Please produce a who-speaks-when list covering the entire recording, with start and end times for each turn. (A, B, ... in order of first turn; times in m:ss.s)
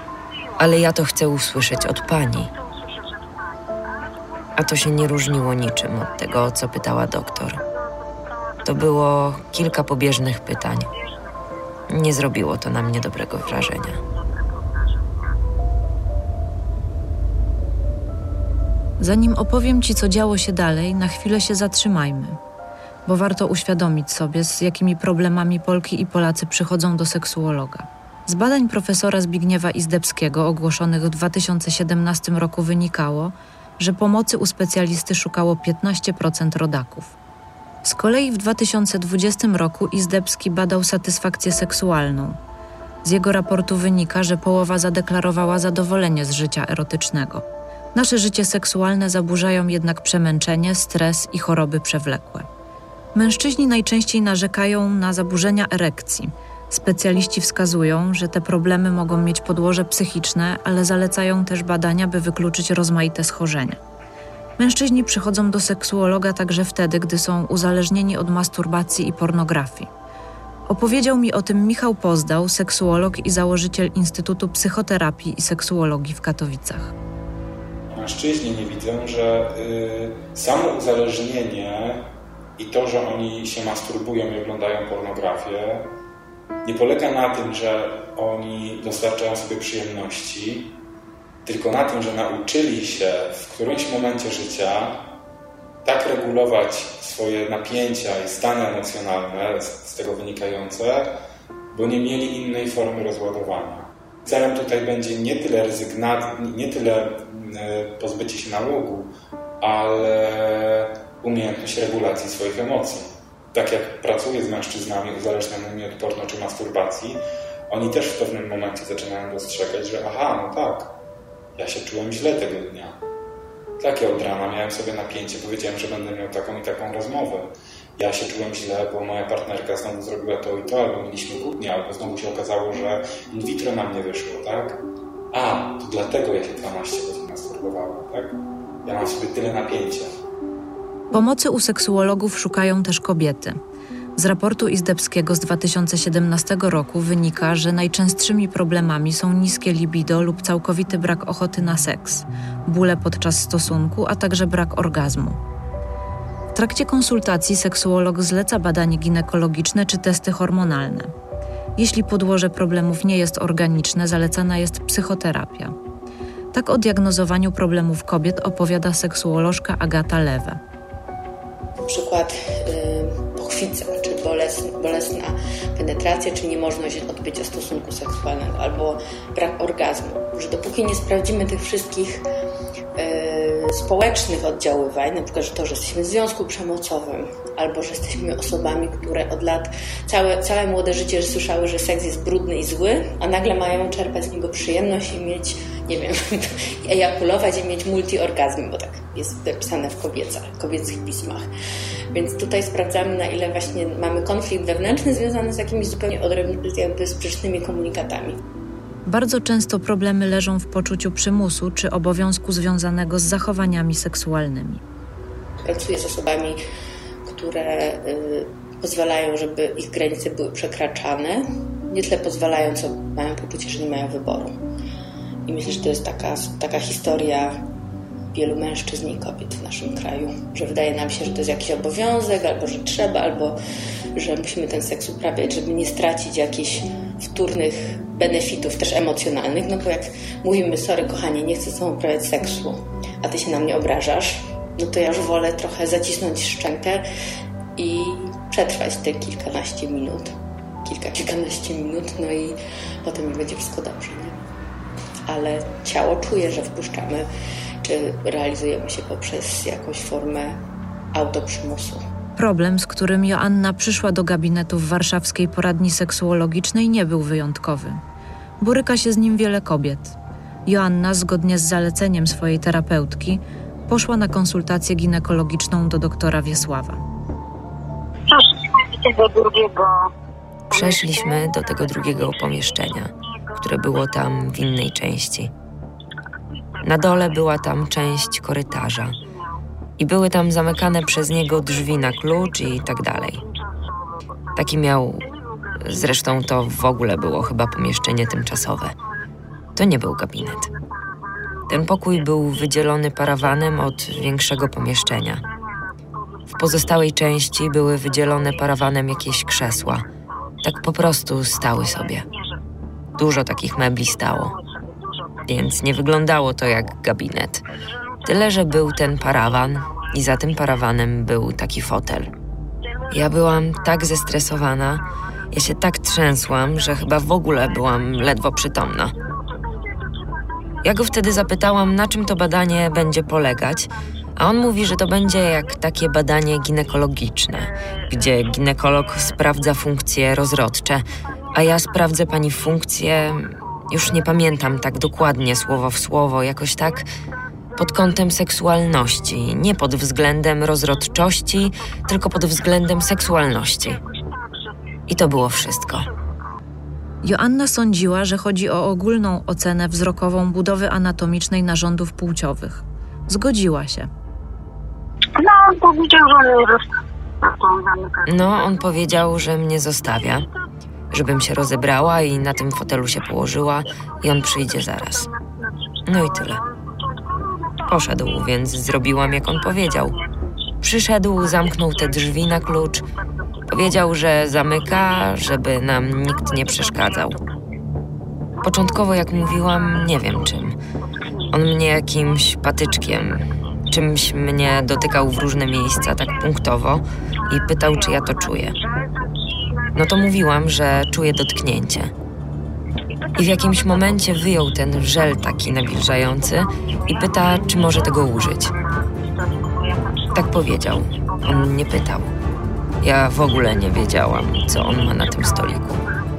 0:00.6-0:02.5 A
0:02.8-0:04.1 B
0:04.6-0:07.6 A
0:08.6-0:10.9 A
0:11.9-0:14.0 A
0:19.0-0:22.4 C
0:23.1-0:37.1 C
0:37.8-0:42.4 C
0:43.0-0:52.5 C
0:53.1-1:03.8 C
1:04.6-1:09.9 C
1:10.7-1:16.9 C
1:17.9-1:25.9 D
1:26.6-1:30.7 D
1:31.4-1:35.1 D
1:35.8-1:41.1 D
1:41.7-2:00.9 D
2:01.6-2:03.0 D
2:03.8-2:14.8 D
2:15.3-2:20.1 D
2:21.1-2:23.6 C
2:24.2-2:35.4 C
2:36.5-2:41.1 C
2:41.8-2:45.7 C
2:46.5-2:50.6 C
2:51.8-3:02.2 E
3:03.0-3:21.4 E
3:22.1-3:28.4 E
3:29.1-3:34.8 C
3:35.6-3:36.6 E
3:37.2-3:44.5 E
3:45.4-3:47.6 E
3:48.3-3:53.6 E
3:54.1-4:07.0 E
4:07.8-4:14.4 E
4:15.3-4:17.3 E
4:17.8-4:20.6 E
4:21.1-4:22.0 E
4:22.4-4:28.0 C
4:28.6-4:37.0 C
4:38.3-4:40.1 B
4:40.7-4:45.5 A
4:40.7-4:41.6 B
4:46.8-4:49.1 A
4:46.9-4:47.2 B
4:50.0-4:53.4 A
4:54.6-4:55.2 A
4:55.8-4:58.9 A
4:59.8-5:00.7 A
5:01.7-5:05.4 A
5:06.5-5:10.0 A
5:10.6-5:12.2 A
5:13.2-5:14.5 A
5:13.8-5:14.2 B
5:15.5-5:17.6 A
5:18.2-5:22.3 A
5:23.1-5:24.0 B
5:23.1-5:25.0 A
5:25.5-5:29.1 A
5:29.5-5:30.3 B
5:30.8-5:47.1 A
5:30.9-5:31.4 B
5:47.8-5:54.0 A
5:53.8-5:54.3 B
5:55.1-5:56.0 A
5:57.2-6:04.1 C
6:05.4-6:08.3 B
6:08.3-6:10.4 A
6:11.1-6:15.3 A
6:14.3-6:17.5 B
6:16.1-6:16.6 A
6:17.9-6:20.1 A
6:19.3-6:20.3 B
6:20.8-6:23.0 A
6:21.7-6:22.0 B
6:23.7-6:27.4 A
6:26.5-6:27.3 B
6:28.6-6:30.8 A
6:31.5-6:38.7 A
6:37.9-6:39.5 B
6:40.0-6:42.1 A
6:43.2-6:44.2 B
6:43.4-6:48.7 A
6:46.6-6:48.1 B
6:49.1-6:50.5 B
6:50.3-6:52.3 A
6:53.0-6:56.0 A